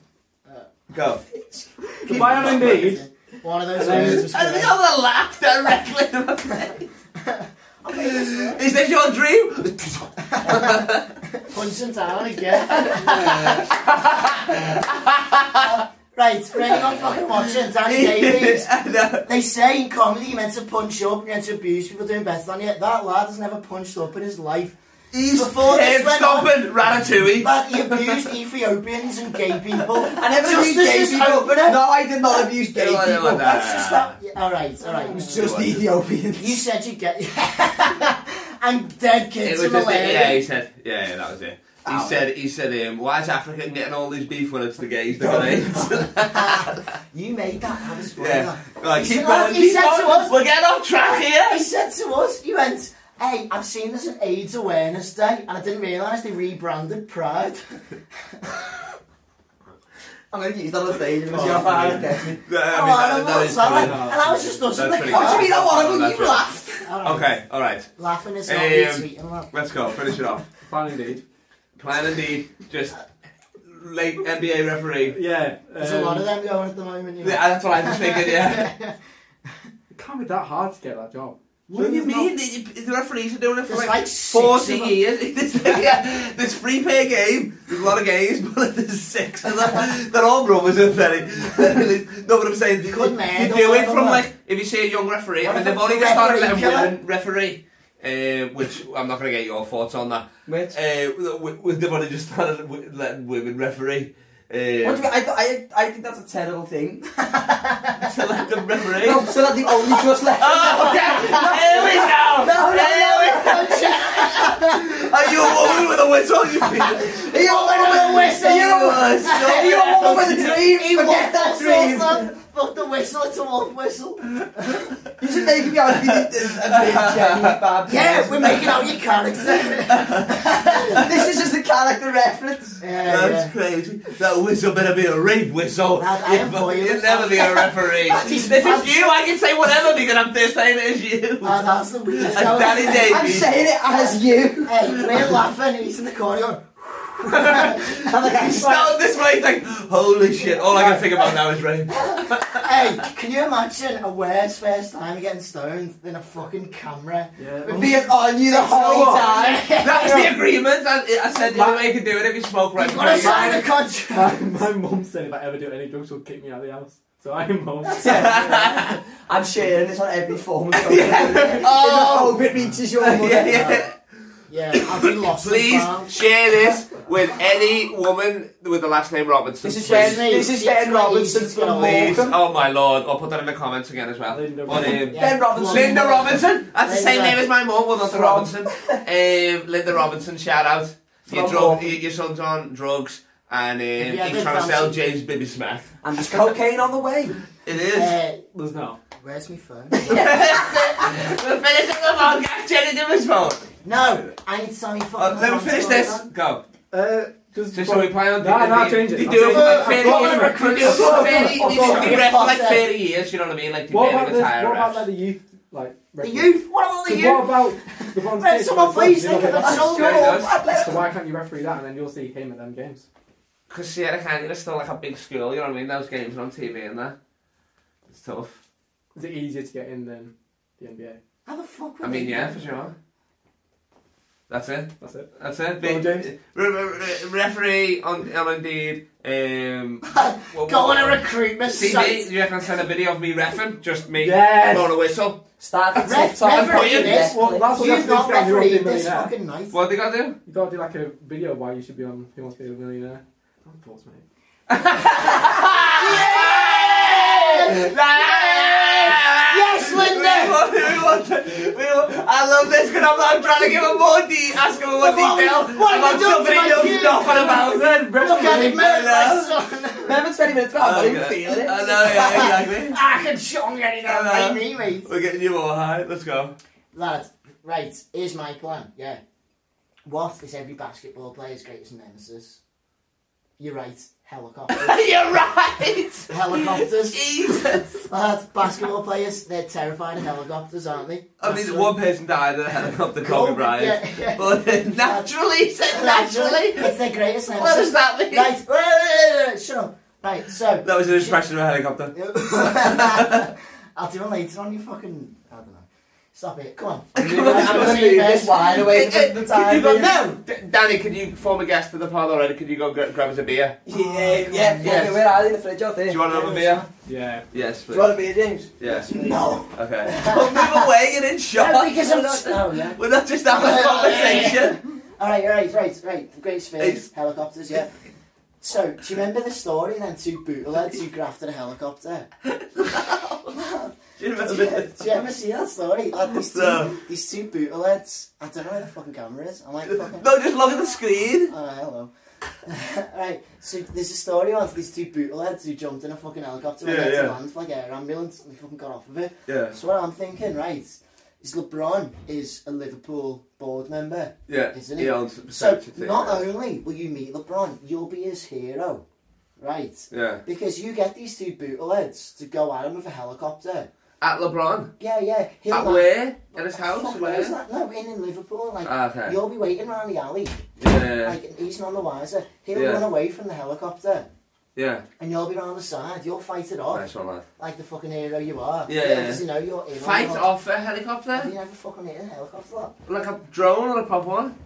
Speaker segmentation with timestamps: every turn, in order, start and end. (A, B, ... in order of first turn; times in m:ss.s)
0:00.9-0:01.2 A
0:02.0-0:04.8 B
0:02.0-0:03.0 A
0:02.1-0:03.0 C
0:03.7-0:04.3 C
0:03.8-0:06.9 A
0:07.2-0:08.6 B
0:07.9-0:11.1 A
0:10.3-0:10.9 B
0:11.4-0:13.7 B
0:12.6-0:15.8 A
0:14.5-0:14.8 B
0:15.6-0:18.7 B
0:17.4-0:19.2 A
0:19.2-0:26.7 B
0:25.1-0:25.4 D
0:25.2-0:28.3 A
0:27.4-0:31.8 B
0:30.1-0:33.6 D
0:32.7-0:34.2 A
0:33.4-0:35.5 B
0:34.9-0:36.6 D
0:35.3-0:35.9 A
0:36.4-0:40.4 B
0:39.4-0:46.9 A
0:41.9-0:42.2 D
0:45.2-0:45.9 D
0:46.3-0:50.4 B
0:48.2-0:51.6 A
0:51.4-0:57.8 B
0:58.3-0:58.9 B
1:00.3-1:02.4 D
1:01.3-1:02.1 C
1:02.4-1:07.9 A
1:02.7-1:05.5 B
1:03.6-1:04.6 C
1:05.1-1:06.9 D
1:06.8-1:07.3 B
1:08.0-1:09.5 B
1:08.4-1:10.4 A
1:10.6-1:11.2 C
1:11.8-1:13.0 A
1:13.7-1:15.1 A
1:15.1-1:16.3 C
1:15.8-1:19.0 B
1:17.2-1:18.7 A
1:19.9-1:21.4 C
1:21.7-1:22.3 B
1:21.7-1:45.1 A
1:23.7-1:25.0 B
1:32.8-1:34.2 B
1:35.4-1:37.0 B
1:40.5-1:40.7 D
1:44.8-1:47.1 D
1:47.2-1:48.1 B
1:48.0-1:49.4 A
1:48.9-1:53.8 D
1:50.3-1:57.2 A
1:50.8-1:52.0 B
1:53.2-1:55.9 B
1:56.8-2:04.9 B
1:57.0-2:02.3 D
1:59.4-2:00.6 A
2:05.2-2:08.9 D
2:05.6-2:07.6 A
2:07.9-2:11.1 B
2:09.9-2:11.2 A
2:11.0-2:12.8 D
2:12.8-2:13.5 B
2:13.0-2:23.6 A
2:16.0-2:19.1 B
2:21.4-2:28.9 B
2:22.7-2:25.4 D
2:27.3-2:33.0 A
2:31.9-2:40.3 B
2:37.4-2:37.9 C
2:37.7-2:40.3 D
2:38.9-2:39.3 C
2:39.8-2:43.6 A
2:41.5-2:41.9 C
2:42.8-2:44.6 B
2:43.2-2:48.2 C
2:47.9-2:53.8 D
2:48.0-2:49.0 A
2:48.2-2:48.6 B
2:50.7-2:52.4 A
2:53.0-2:54.0 A
2:53.5-2:53.8 B
2:54.5-2:56.1 B
2:54.7-3:00.3 A
2:59.6-3:02.4 D
2:59.8-3:02.3 B
3:01.8-3:15.9 A
3:04.3-3:05.1 C
3:05.1-3:07.4 B
3:05.1-3:06.4 D
3:08.0-3:09.0 D
3:11.3-3:12.0 D
3:14.0-3:15.0 B
3:16.0-3:17.4 D
3:17.6-3:18.1 A
3:17.9-3:18.4 B
3:18.5-3:19.0 C
3:19.2-3:21.0 B
3:20.0-3:23.6 A
3:20.1-3:20.6 D
3:23.8-3:26.3 B
3:25.2-3:26.6 A
3:26.9-3:30.8 C
3:27.7-3:35.0 A
3:29.3-3:32.9 B
3:30.6-3:32.4 D
3:31.6-3:32.0 C
3:33.9-3:43.1 C
3:36.2-3:40.4 B
3:39.4-3:41.1 D
3:39.8-3:40.6 A
3:43.7-3:47.2 A
3:48.1-3:48.6 A
3:49.1-3:51.2 C
3:51.4-3:52.6 B
3:52.0-3:52.9 A
3:54.5-4:05.4 A
3:55.0-3:56.3 C
4:00.1-4:02.3 B
4:04.2-4:04.9 C
4:05.6-4:07.7 D
4:05.9-4:07.3 A
4:06.0-4:09.8 B
4:07.2-4:09.3 C
4:09.7-4:10.4 A
4:10.4-4:14.2 C
4:14.7-4:29.5 A
4:15.2-4:20.7 B
4:24.9-4:30.2 B
4:27.7-4:28.8 C
4:30.0-4:32.0 D
4:30.8-4:33.0 A
4:31.8-4:35.1 B
4:34.1-4:36.6 A
4:36.9-4:39.2 B
4:40.0-4:42.6 B
4:43.6-4:45.0 B
4:44.7-4:47.9 A
4:46.3-4:51.9 B
4:51.4-4:56.9 A
4:53.2-4:55.3 B
4:55.9-5:01.4 B
4:57.6-4:58.5 A
5:00.8-5:03.5 A
5:02.1-5:08.7 B
5:07.1-5:13.8 A
5:07.2-5:10.1 D
5:09.9-5:10.4 B
5:13.8-5:16.8 D
5:13.9-5:15.1 B
5:14.8-5:15.2 A
5:16.1-5:16.9 A
5:17.1-5:17.4 C
5:17.5-5:18.2 A
5:17.9-5:20.1 D
5:18.8-5:19.2 A
5:19.1-5:20.9 B
5:19.7-5:24.8 A
5:21.6-5:27.9 B
5:26.8-5:27.1 A
5:28.6-5:32.3 B
5:32.4-5:33.6 A
5:33.5-5:40.3 B
5:34.2-5:35.1 A
5:36.4-5:37.0 A
5:39.9-5:41.5 A
5:41.4-5:42.1 B
5:42.6-5:59.0 B
5:46.8-5:47.4 A
5:49.5-5:49.8 A
5:54.5-5:56.4 A
5:59.6-6:03.9 B
6:00.1-6:00.4 A
6:04.2-6:04.9 A
6:05.0-6:10.7 B
6:05.7-6:07.6 A
6:08.8-6:09.4 A
6:10.8-6:11.4 A
6:11.2-6:14.3 B
6:12.7-6:13.0 A
6:14.8-6:15.0 A
6:15.2-6:17.0 B
6:16.9-6:17.4 A
6:17.6-6:20.4 B
6:18.9-6:19.4 A
6:19.9-6:21.5 A
6:21.3-6:22.9 B
6:23.1-6:24.6 A